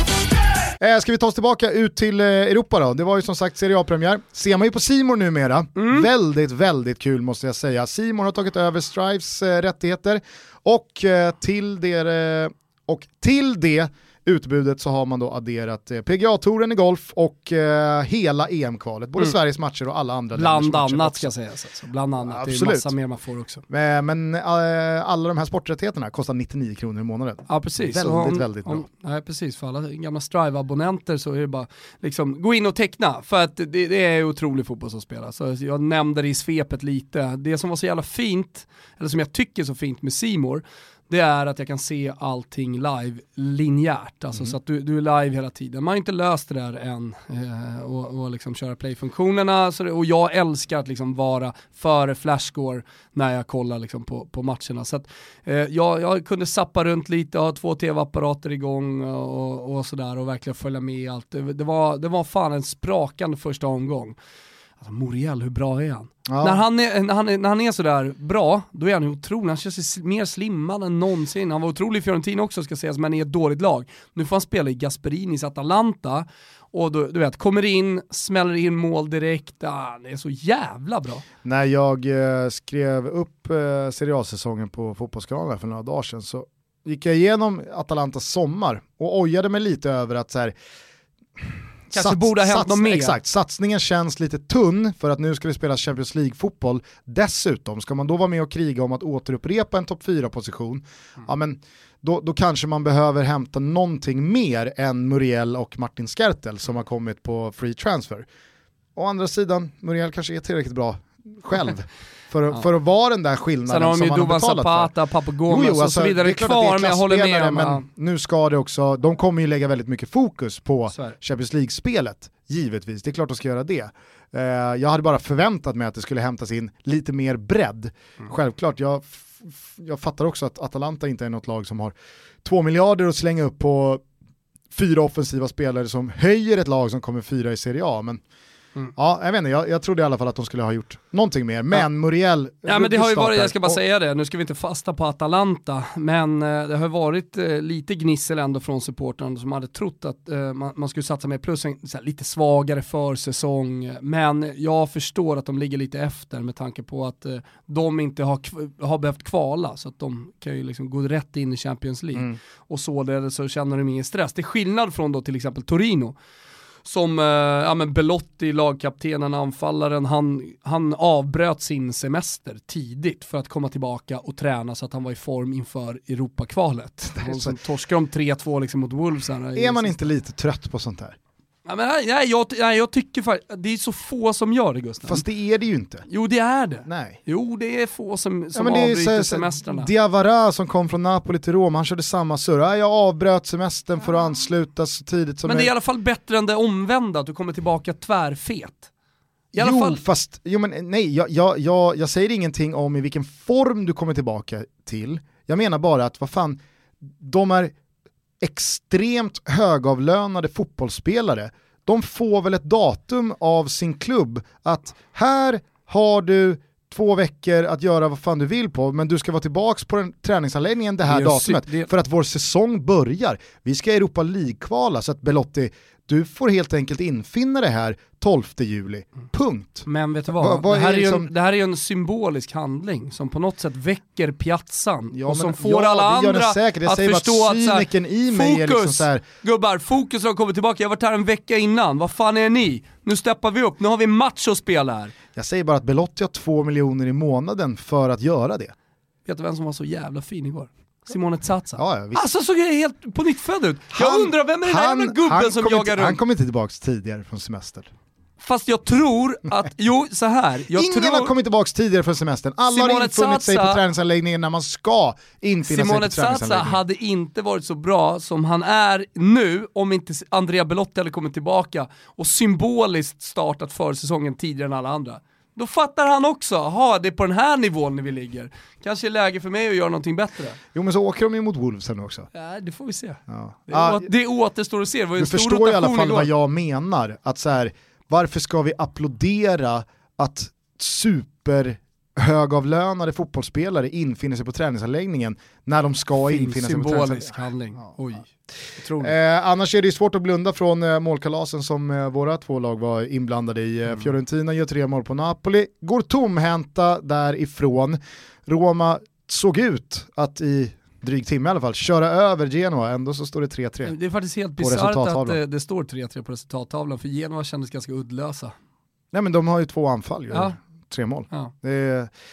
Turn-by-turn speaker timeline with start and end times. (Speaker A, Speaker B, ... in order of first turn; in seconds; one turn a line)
Speaker A: 0.8-21.3
Speaker B: 5.8-6.1
Speaker B: 20.3-23.6
Speaker A: 22.2-22.9
Speaker A: 23.7-28.9
Speaker B: 27.5-64.2
Speaker B: 64.8-81.2
Speaker A: 66.3-66.6
Speaker A: 81.4-90.5
Speaker A: 91.4-108.3
Speaker B: 91.9-93.2
Speaker A: 109.0-114.9
Speaker B: 113.7-117.8
Speaker A: 115.5-134.0
Speaker A: 134.7-138.2
Speaker A: 138.9-143.8
Speaker B: 142.6-166.2
Speaker B: 166.8-180.1
Speaker A: 177.1-177.6
Speaker A: 179.5-181.2
Speaker B: 181.7-185.2
Speaker A: 185.1-186.0
Speaker B: 186.1-189.9
Speaker A: 186.8-187.2
Speaker A: 188.5-195.7
Speaker B: 195.4-198.9
Speaker B: 199.5-200.0
Speaker A: 199.6-206.6
Speaker A: 207.1-207.7
Speaker A: 208.4-231.3
Speaker B: 221.1-221.9
Speaker B: 229.9-245.1
Speaker A: 235.1-239.2
Speaker A: 245.3-248.7
Speaker B: 249.2-256.2
Speaker A: 251.8-252.2
Speaker A: 253.9-257.9
Speaker B: 258.4-261.3
Speaker A: 260.7-266.8
Speaker B: 262.7-263.8
Speaker B: 265.6-280.6
Speaker A: 280.7-282.3
Speaker B: 282.3-286.3
Speaker A: 283.3-284.1
Speaker A: 285.2-297.4
Speaker B: 296.2-299.1
Speaker A: 299.0-314.0
Speaker B: 313.8-318.5
Speaker A: 314.6-315.4
Speaker A: 319.1-322.1